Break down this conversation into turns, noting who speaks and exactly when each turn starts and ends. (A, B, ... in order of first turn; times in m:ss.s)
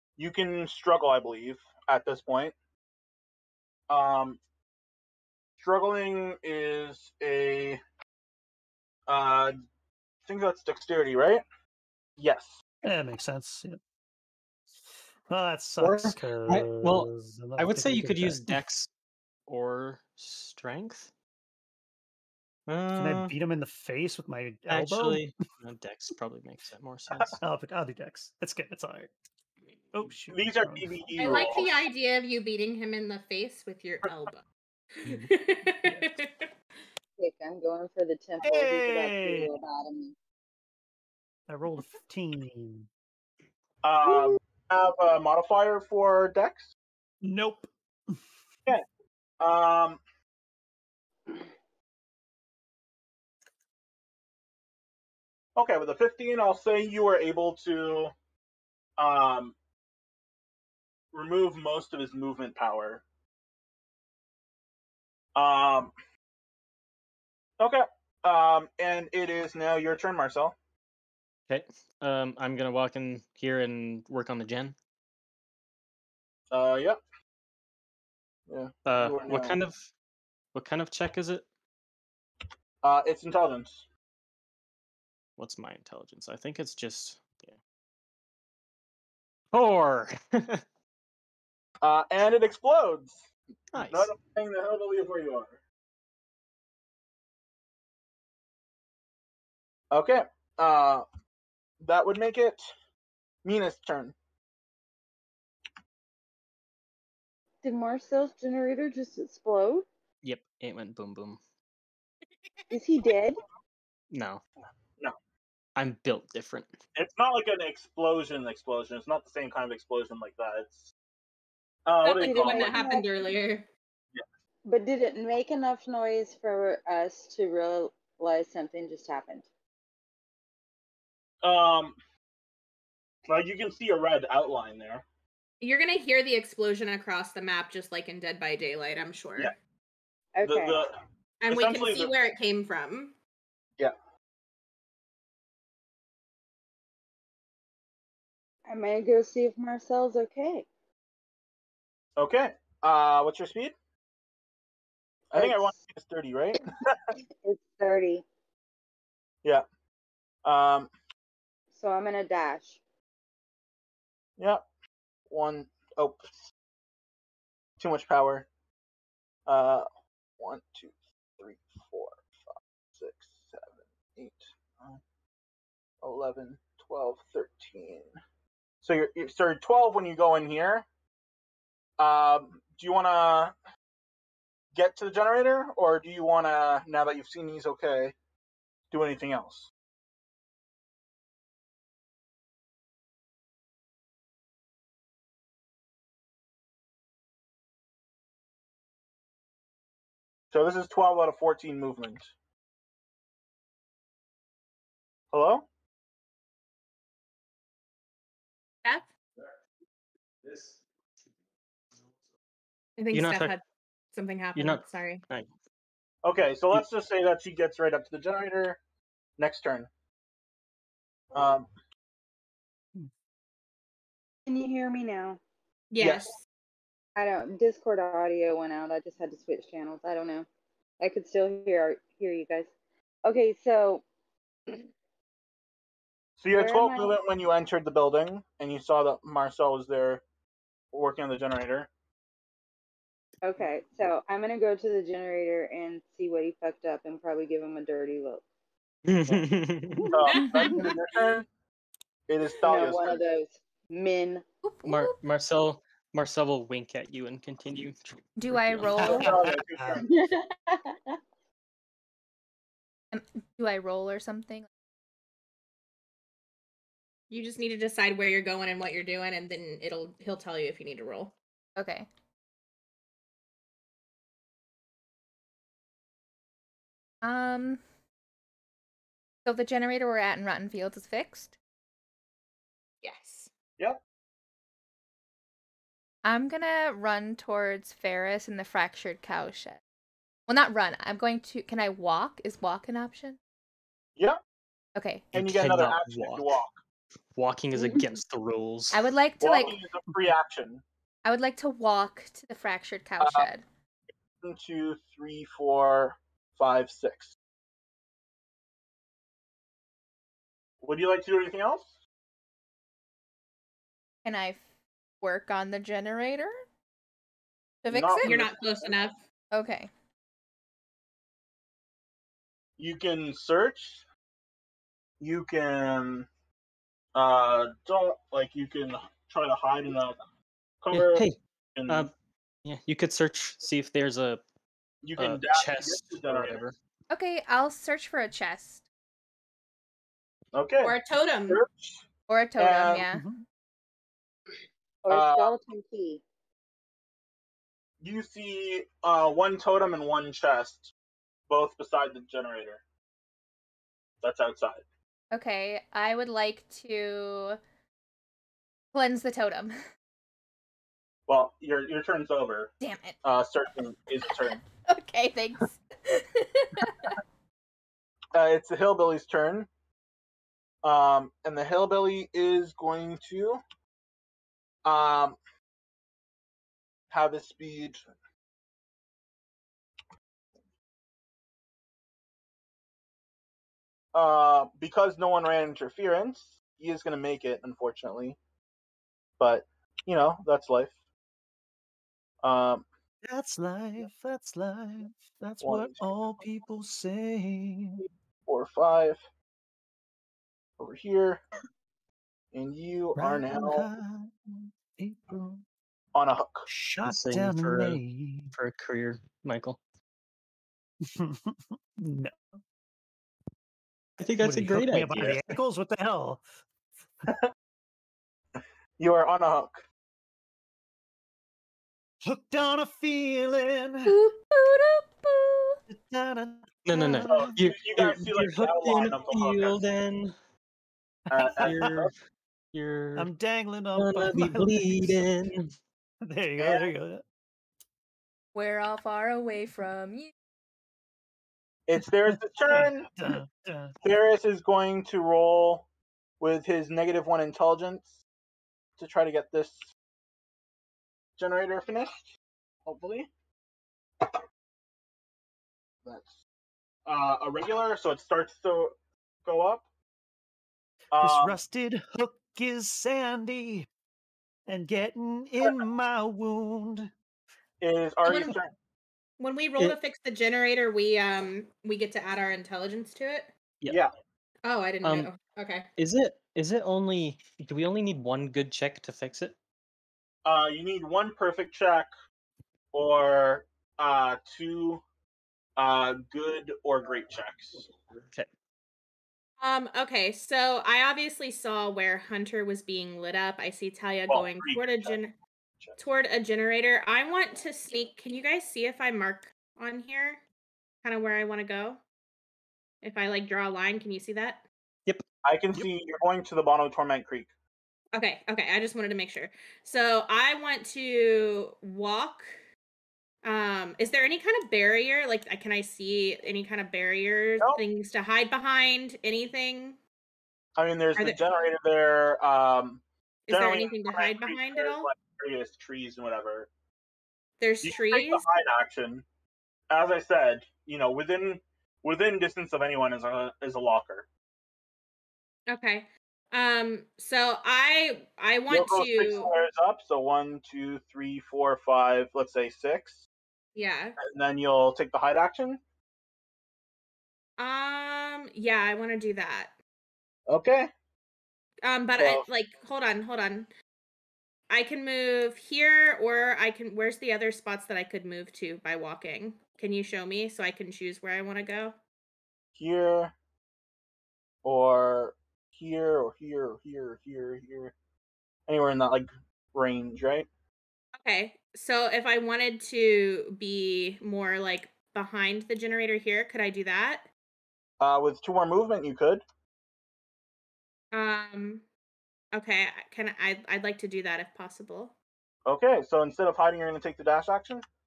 0:00.2-0:02.5 A
0:03.9-0:04.4 A
0:05.6-0:07.8 A
0:09.1-0:09.6 A
0:10.2-0:11.4 A
0:12.2-0:12.6 A
0:12.8-0:13.8 B
0:15.3-0:18.6 B
0:15.8-0:18.9 C
0:19.5-0:21.1 C
0:22.7-0:23.3 C
0:22.9-0:25.3 B
0:24.7-0:27.4 C
0:27.4-0:29.1 B
0:29.9-0:31.6 B
0:30.3-0:31.8 A
0:31.2-0:34.4 D
0:35.0-0:36.5 D
0:35.0-0:35.3 B
0:37.2-0:40.2 E
0:38.4-0:39.5 B
0:41.5-0:42.9 B
0:43.8-0:46.7 A
0:47.2-0:48.2 B
0:49.4-0:50.0 A
0:55.6-0:58.1 A
0:59.0-0:59.6 A
1:01.1-1:03.0 A
1:05.4-1:05.9 A
1:07.6-1:10.6 A
1:11.5-1:14.8 C
1:16.5-1:17.0 A
1:18.5-1:19.6 A
1:18.8-1:19.9 C
1:20.5-1:21.5 C
1:22.8-1:23.9 A
1:25.4-1:27.6 C
1:29.5-1:30.6 C
1:31.8-1:35.6 A
1:33.7-1:34.2 C
1:39.9-1:41.0 A
1:41.8-1:42.7 A
1:43.4-1:44.2 A
1:47.6-1:49.9 E
1:50.2-1:51.4 C
1:52.7-1:53.4 E
1:54.1-1:54.4 C
1:55.8-1:56.8 C
1:57.0-2:00.9 A
2:01.8-2:02.8 A
2:02.0-2:03.7 D
2:02.2-2:03.1 E
2:04.7-2:09.5 E
2:11.4-2:12.0 A
2:13.3-2:15.0 A
2:15.6-2:19.5 D
2:20.4-2:20.8 E
2:20.4-2:21.0 A
2:21.4-2:23.2 D
2:21.5-2:22.1 A
2:28.7-2:30.7 E
2:32.2-2:33.7 A
2:35.3-2:37.2 A
2:35.4-2:35.7 E
2:37.4-2:38.2 E
2:40.4-2:40.9 A
2:41.7-2:42.8 E
2:44.4-2:44.6 A
2:45.3-2:46.5 A
2:47.8-2:48.5 A
2:49.5-2:49.9 A
2:50.4-2:55.0 A
2:56.0-2:58.1 A
2:58.8-3:00.9 A
3:02.0-3:03.5 A
3:04.7-3:08.2 A
3:08.9-3:09.7 A
3:20.5-3:22.3 A
3:25.3-3:25.7 A
3:28.8-3:29.1 D
3:33.0-3:35.2 D
3:33.1-3:33.6 C
3:34.6-3:35.5 C
3:36.2-3:38.8 A
3:39.4-3:39.9 A
3:41.3-3:41.7 A
3:44.5-3:45.4 E
3:45.9-3:46.4 D
3:46.0-3:46.3 A
3:47.2-3:50.5 E
3:51.0-3:52.7 E
3:53.2-3:54.0 E
3:56.4-4:00.2 A
3:56.5-3:57.2 E
4:00.9-4:01.9 A
4:03.4-4:08.4 E
4:09.0-4:10.2 C
4:09.3-4:10.8 B
4:10.1-4:11.5 A
4:10.2-4:11.1 D
4:12.3-4:13.2 A
4:12.6-4:14.4 E
4:14.6-4:15.2 F
4:14.8-4:19.1 C
4:18.4-4:19.4 F
4:18.8-4:20.1 B
4:19.0-4:20.1 A
4:20.0-4:21.2 E
4:23.1-4:24.7 F
4:27.3-4:31.4 D
4:31.8-4:32.1 F
4:37.2-4:37.8 F
4:39.4-4:41.5 F
4:43.0-4:43.5 D
4:46.2-4:49.8 F
4:50.5-4:53.4 F
4:55.0-4:55.3 F
4:55.3-4:56.6 C
4:55.4-4:56.8 A
4:57.4-4:59.1 C
4:58.9-4:59.8 F
4:59.4-5:00.8 A
5:01.2-5:03.6 F
5:03.2-5:03.5 A
5:04.4-5:07.4 A
5:10.8-5:11.9 A
5:14.2-5:14.6 F
5:15.2-5:16.6 F
5:17.8-5:18.4 F
5:17.9-5:18.9 A
5:18.2-5:19.2 D
5:19.5-5:19.9 F
5:22.8-5:24.0 A
5:25.2-5:26.3 A
5:27.2-5:30.2 A
5:30.8-5:32.1 A
5:30.9-5:32.1 C
5:32.6-5:34.4 C
5:35.0-5:36.6 A
5:35.2-5:36.8 C
5:37.1-5:38.8 F
5:40.5-5:41.0 A
5:40.8-5:41.6 D
5:41.5-5:42.0 A
5:42.3-5:43.3 F
5:42.6-5:43.0 A
5:43.1-5:43.4 B
5:45.0-5:46.2 E
5:45.1-5:45.5 A
5:48.0-5:50.9 A
5:51.5-5:52.8 A
5:54.2-5:54.8 A
5:55.3-5:57.6 F
5:58.9-5:59.8 F
6:01.3-6:02.7 A
6:02.8-6:03.2 F
6:03.2-6:04.6 A
6:04.8-6:07.2 F
6:08.3-6:09.7 A
6:10.8-6:13.6 A
6:14.8-6:15.4 A
6:17.1-6:18.0 A
6:24.1-6:28.4 A
6:29.4-6:31.0 A
6:32.4-6:32.8 A
6:33.2-6:38.0 B
6:35.6-6:36.2 A
6:38.5-6:39.2 A
6:40.8-6:41.4 A
6:42.5-6:43.9 A
6:43.2-6:45.6 B
6:46.1-6:46.7 A
6:46.7-6:48.5 B
6:47.0-6:48.0 C
6:48.5-6:49.8 C
6:51.1-6:52.4 B
6:54.2-6:55.5 C
6:54.4-6:56.4 B
6:57.3-6:57.5 A
6:59.0-6:59.8 A
7:02.2-7:04.1 B
7:04.1-7:05.8 F
7:05.9-7:07.6 B
7:06.9-7:10.4 C
7:07.3-7:09.8 A
7:11.3-7:12.1 A
7:11.4-7:12.1 C
7:12.7-7:13.3 C
7:13.2-7:15.2 B
7:14.0-7:15.7 C
7:16.2-7:17.2 B
7:16.6-7:16.9 A
7:18.6-7:20.3 F
7:21.9-7:23.1 A
7:22.3-7:24.0 B
7:24.0-7:25.9 A
7:26.4-7:28.2 A
7:29.0-7:29.9 A
7:31.4-7:32.3 A
7:32.9-7:33.3 A
7:36.0-7:36.4 A
7:37.1-7:39.9 A
7:41.1-7:41.6 A
7:41.2-7:43.9 B
7:44.7-7:47.1 B
7:47.8-7:48.7 A
7:48.2-7:48.6 D
7:49.4-7:53.5 D
7:54.6-7:55.9 D
7:55.0-7:55.3 C
7:56.0-7:59.6 C
8:00.4-8:02.1 A
8:02.9-8:05.0 A
8:05.8-8:07.9 A
8:09.6-8:15.3 D
8:14.3-8:15.2 A
8:16.0-8:20.4 D
8:21.0-8:22.0 D
8:23.0-8:24.6 D
8:25.4-8:27.5 A
8:28.1-8:32.6 D
8:33.4-8:40.0 D
8:40.8-8:46.7 A
8:41.2-8:41.4 D
8:43.5-8:45.1 D
8:47.6-8:48.4 D
8:47.8-8:49.2 A
8:49.9-8:54.3 A
8:55.7-8:59.5 D
8:58.7-9:03.3 A
9:03.8-9:04.2 D
9:04.2-9:05.8 A
9:07.6-9:09.8 D
9:10.5-9:10.9 A
9:11.8-9:13.7 D
9:12.2-9:12.4 A
9:14.7-9:22.0 D
9:22.8-9:23.3 A
9:24.6-9:27.9 A
9:28.7-9:30.5 A
9:31.2-9:37.3 D
9:38.0-9:39.4 A
9:41.1-9:41.9 D
9:42.5-9:45.2 D
9:45.7-9:47.8 A